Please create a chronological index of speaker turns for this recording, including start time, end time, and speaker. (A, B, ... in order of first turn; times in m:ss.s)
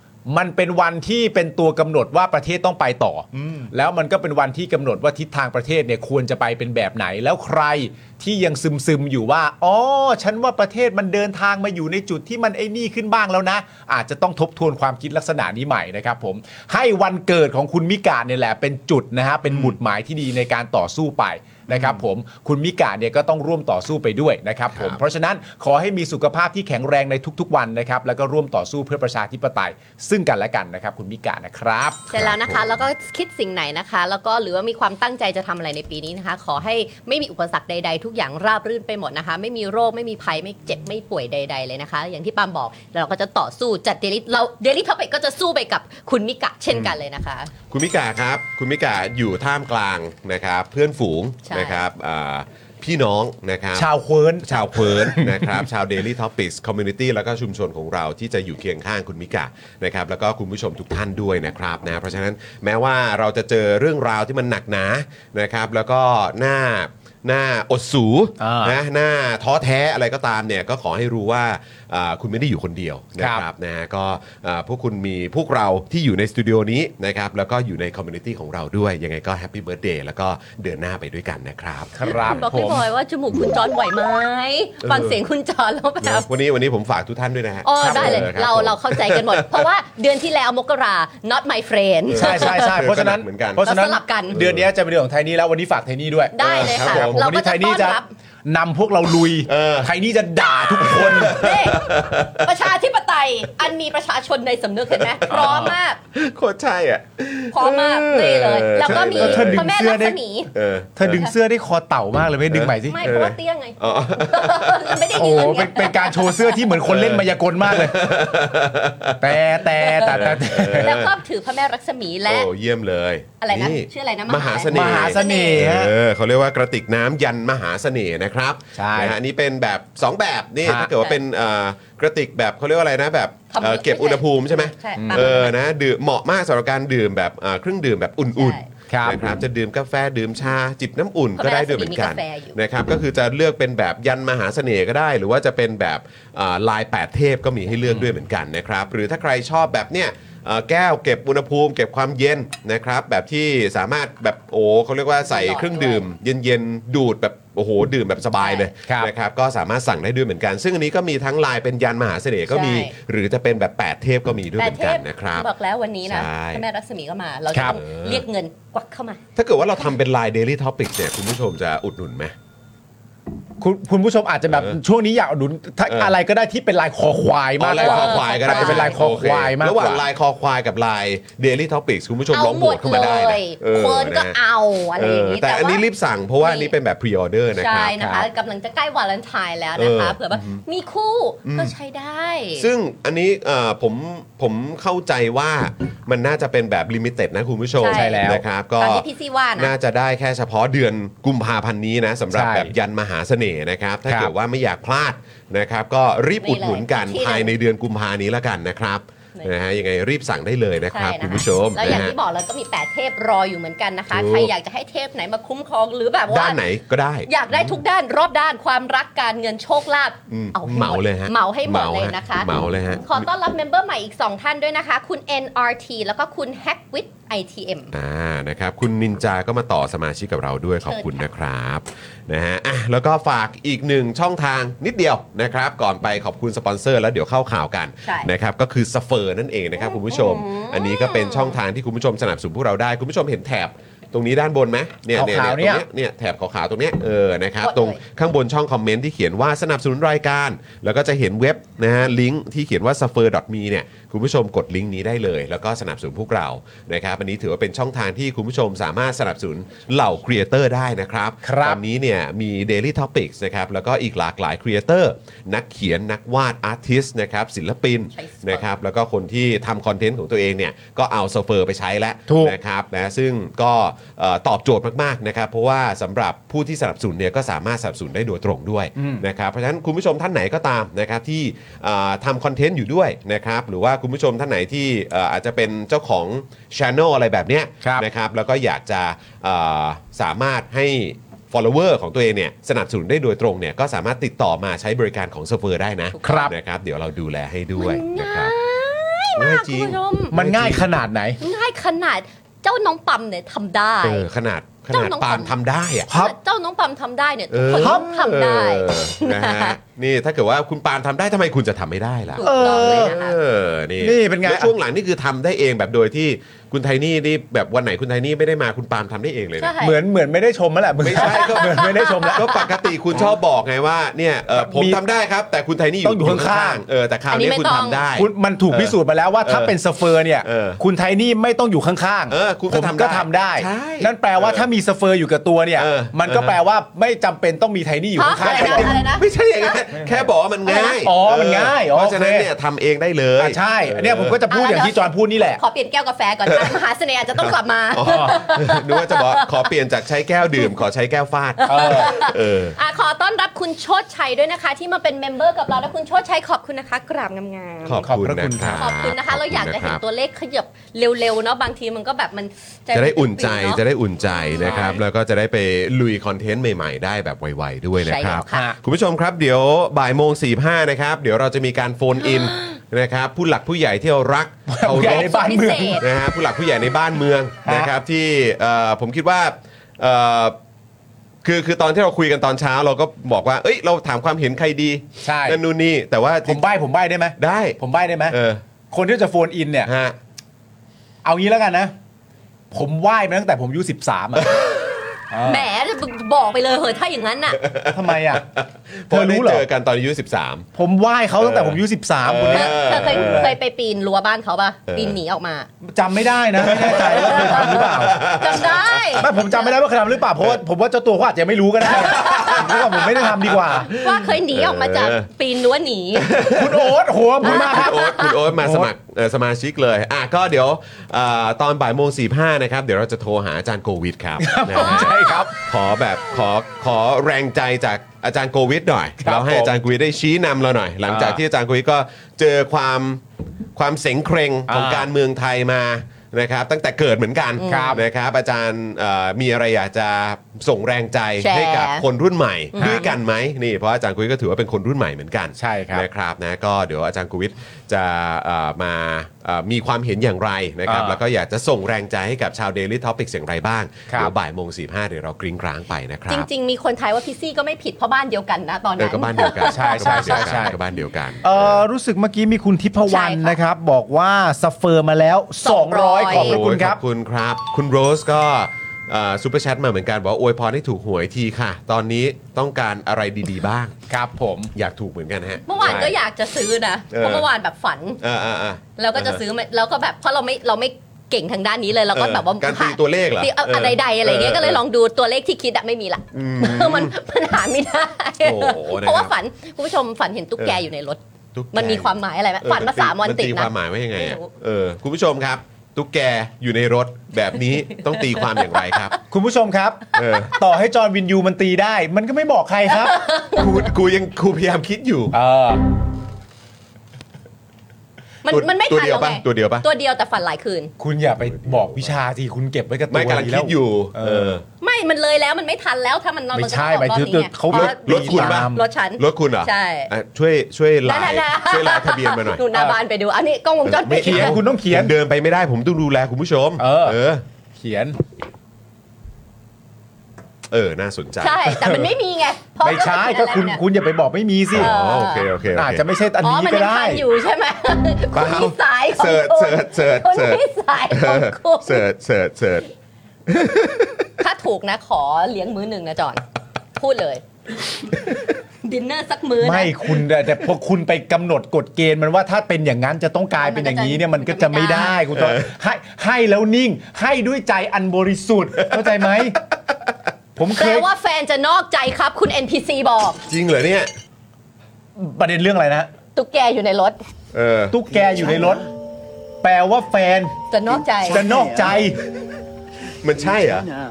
0:00.2-0:32.1 A
0:03.3-0:03.7 B
0:19.5-0:19.8 B
0:21.7-0:22.0 B
0:32.1-0:47.5 C
0:32.1-0:32.8 B
0:47.7-0:53.9 B
0:51.4-0:51.8 C
0:53.7-0:55.6 A
0:54.4-1:22.4 B
1:08.4-1:08.8 A
1:13.2-1:13.4 A
1:21.9-1:22.8 A
1:22.1-1:26.3 C
1:24.8-1:25.2 B
1:26.0-1:29.7 B
1:27.6-1:32.7 C
1:27.9-1:28.3 A
1:32.1-1:33.6 B
1:32.2-1:41.4 A
1:33.6-1:34.4 C
1:34.3-1:34.6 B
1:36.3-1:38.1 C
1:36.4-1:37.2 B
1:39.4-1:39.9 B
1:40.8-1:46.0 C
1:40.8-1:42.6 B
1:44.9-1:49.8 B
1:45.3-1:45.7 A
1:47.5-1:50.5 C
1:48.8-1:50.2 A
1:50.5-1:51.3 B
1:51.0-1:53.0 A
1:52.5-1:55.3 B
1:52.9-1:56.6 C
1:55.1-1:58.1 A
1:56.8-1:59.4 B
1:59.2-2:00.9 A
1:59.8-2:02.5 C
2:00.0-2:01.1 B
2:02.3-2:45.5 B
2:03.4-2:05.6 C
2:04.7-2:05.9 A
2:08.7-2:09.2 A
2:10.6-2:10.9 A
2:13.5-2:15.5 C
2:15.0-2:15.3 A
2:18.4-2:18.7 C
2:18.9-2:19.3 A
2:21.4-2:22.6 C
2:35.2-2:36.0 C
2:38.4-2:38.7 C
2:42.5-2:42.9 C
2:44.6-2:49.2 C
2:46.0-2:46.6 B
2:47.6-2:48.2 B
2:49.4-2:52.3 B
2:53.6-3:00.0 A
2:54.5-2:54.8 B
2:55.9-2:56.1 B
2:57.6-3:04.4 B
2:57.7-2:59.0 C
3:02.3-3:05.8 C
3:05.0-3:08.0 B
3:06.4-3:06.7 C
3:07.6-3:12.7 C
3:08.0-3:08.3 A
3:09.8-3:10.6 B
3:11.4-3:11.7 B
3:12.6-3:19.0 B
3:17.8-3:19.7 C
3:17.9-3:18.4 A
3:19.6-3:32.2 B
3:22.3-3:22.7 A
3:26.4-3:27.5 C
3:30.9-3:36.6 C
3:34.1-3:34.5 B
3:36.3-3:37.8 B
3:37.3-3:47.9 C
3:40.3-3:43.3 B
3:47.9-4:58.5 B
3:50.9-3:51.2 C
3:58.0-3:58.3 C
3:59.8-4:01.6 C
4:05.1-4:05.8 A
4:07.6-4:08.0 C
4:21.4-4:21.8 A
4:28.1-4:28.6 C
4:32.3-4:32.6 A
4:39.0-4:39.2 A
4:56.1-4:56.5 C
4:56.2-4:56.5 A
4:57.8-5:00.3 C
4:59.4-5:01.0 B
5:00.3-5:01.4 A
5:01.4-5:04.3 C
5:04.0-5:06.1 B
5:04.9-5:05.5 C
5:06.1-5:09.8 C
5:06.1-5:06.3 A
5:07.5-5:19.8 B
5:07.8-5:08.1 A
5:12.3-5:13.4 C
5:12.4-5:13.1 A
5:14.0-5:14.7 A
5:19.6-5:20.0 C
5:19.8-5:22.4 A
5:21.0-5:29.7 B
5:21.2-5:22.9 C
5:24.5-5:25.0 A
5:26.0-5:26.8 A
5:27.3-5:28.0 C
5:28.2-5:39.0 A
5:30.4-5:30.8 B
5:32.3-5:34.7 B
5:35.8-5:36.6 B
5:38.2-5:39.8 C
5:38.4-5:44.4 B
5:40.7-5:41.0 C
5:41.0-5:42.5 A
5:43.4-5:45.6 A
5:44.5-5:49.7 C
5:46.5-5:46.8 B
5:47.4-5:52.8 B
5:48.0-5:48.4 A
5:51.6-5:58.0 C
5:51.6-5:52.2 A
5:57.8-6:00.0 B
5:58.0-5:58.8 A
5:58.8-6:05.0 C
6:02.9-6:15.4 B
6:04.6-6:04.9 A
6:08.0-6:08.7 C
6:08.5-6:08.8 A
6:12.2-6:12.7 C
6:14.7-6:16.0 A
6:14.9-6:16.1 C
6:16.0-6:20.6 B
6:17.6-6:17.9 A
6:21.4-6:26.6 B
6:25.2-6:25.6 A
6:26.4-6:28.4 A
6:27.4-6:28.6 B
6:28.9-6:29.9 A
6:29.8-6:30.2 B
6:31.2-6:31.9 A
6:32.7-6:34.5 A
6:34.4-6:34.7 B
6:35.3-6:35.6 A
6:35.4-6:37.6 C
6:37.6-6:40.7 B
6:37.9-6:38.4 A
6:39.1-6:39.6 A
6:40.7-6:43.5 A
6:41.4-6:43.5 B
6:42.5-6:45.7 C
6:44.9-6:45.2 B
6:45.8-6:48.2 A
6:46.6-6:49.3 B
6:46.9-6:49.5 C
6:49.2-6:53.9 A
6:52.0-6:56.4 C
6:52.0-6:52.9 B
6:53.4-6:55.3 B
6:56.2-6:56.9 B
6:56.4-6:58.9 A
6:57.4-7:13.2 B
6:57.4-6:58.4 C
7:04.4-7:05.5 A
7:04.8-7:05.1 C
7:09.2-7:09.8 A
7:11.1-7:11.4 A
7:13.7-7:36.5 B
7:14.7-7:15.1 A
7:17.6-7:18.0 C
7:17.6-7:18.0 A
7:21.4-7:22.0 C
7:22.7-7:23.1 C
7:25.6-7:26.0 A
7:30.8-7:31.2 A
7:36.3-7:40.7 C
7:39.0-7:41.8 B
7:39.7-7:40.8 A
7:41.4-7:47.0 A
7:43.0-7:43.6 C
7:45.6-7:46.6 C
7:46.3-7:53.9 B
7:54.1-7:54.7 A
7:54.7-7:56.1 B
7:55.7-7:58.2 C
7:55.8-7:56.1 A
7:57.1-7:57.5 B
7:58.2-7:59.4 B
7:59.0-8:11.2 C
8:02.1-8:04.8 B
8:06.3-8:07.1 B
8:08.4-8:09.3 B
8:11.5-8:19.2 B
8:11.7-8:14.5 C
8:17.9-8:19.2 C
8:19.3-8:23.2 A
8:20.1-8:20.6 B
8:22.9-8:23.9 C
8:23.6-8:25.3 B
8:25.3-8:25.8 A
8:28.4-8:30.9 C
8:28.5-8:29.9 B
8:31.0-8:34.6 A
8:31.6-8:32.1 B
8:33.1-8:34.6 B
8:34.8-8:40.1 C
8:36.5-8:38.8 A
8:37.7-8:42.6 B
8:41.0-8:44.6 C
8:43.8-8:47.4 B
8:44.1-8:45.1 A
8:46.8-8:47.2 A
8:47.7-8:48.2 A
8:50.7-8:51.8 B
8:51.4-8:53.8 C
8:52.8-8:54.9 A
8:54.7-8:56.0 B
8:54.7-8:55.5 C
8:55.7-8:57.2 A
8:56.4-9:02.0 C
8:58.3-9:02.9 B
9:03.5-9:04.3 B
9:04.4-9:06.4 C
9:07.0-9:08.2 C
9:08.8-9:10.1 C
9:09.6-9:19.6 A
9:13.6-9:15.2 C
9:15.3-9:15.6 B
9:18.8-9:19.4 B
9:20.6-9:21.1 A
9:20.8-9:23.4 C
9:23.5-9:24.1 B
9:25.2-9:26.1 A
9:26.3-9:27.2 C
9:27.5-9:28.8 B
9:27.9-9:28.9 A
9:29.6-9:30.6 A
9:30.7-9:31.5 C
9:31.2-9:32.2 A
9:33.2-9:33.9 B